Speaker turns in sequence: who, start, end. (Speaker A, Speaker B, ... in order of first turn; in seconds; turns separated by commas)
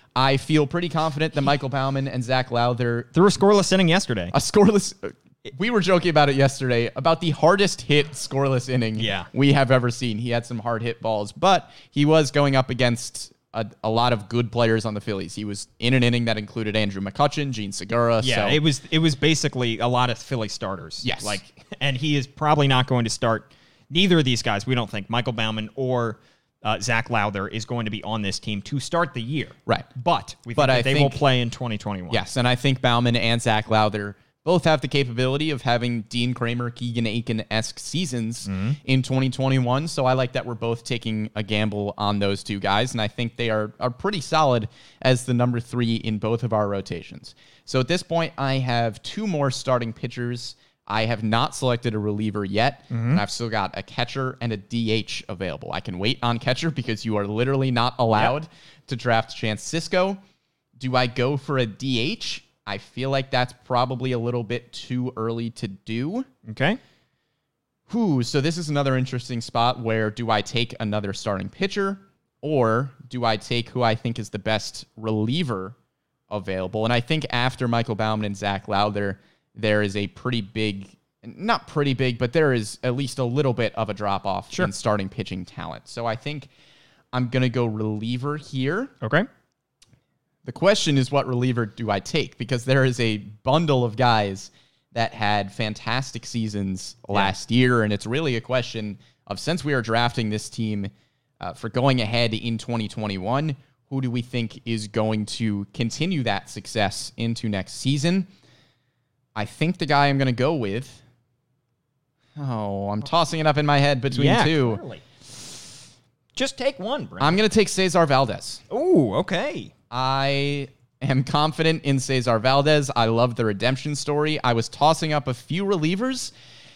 Speaker A: 0.1-3.1, Speaker B: 3.1-4.3, Speaker A: 4.3-18.6, Speaker B: 9.0-9.3, Speaker B: 18.2-32.2, Speaker A: 21.0-21.4, Speaker A: 30.5-31.2, Speaker A: 32.1-60.2, Speaker B: 38.5-38.8, Speaker B: 52.9-53.2, Speaker A: 60.8-66.3, Speaker B: 66.5-66.8, Speaker A: 67.9-75.8, Speaker A: 76.3-86.5, Speaker A: 87.1-88.9, Speaker B: 89.0-89.3, Speaker A: 90.5-108.3, Speaker A: 109.3-111.0, Speaker A: 112.4-114.8, Speaker B: 114.1-115.0, Speaker B: 116.3-117.4, Speaker A: 117.2-118.6, Speaker B: 118.7-119.7, Speaker A: 119.9-126.3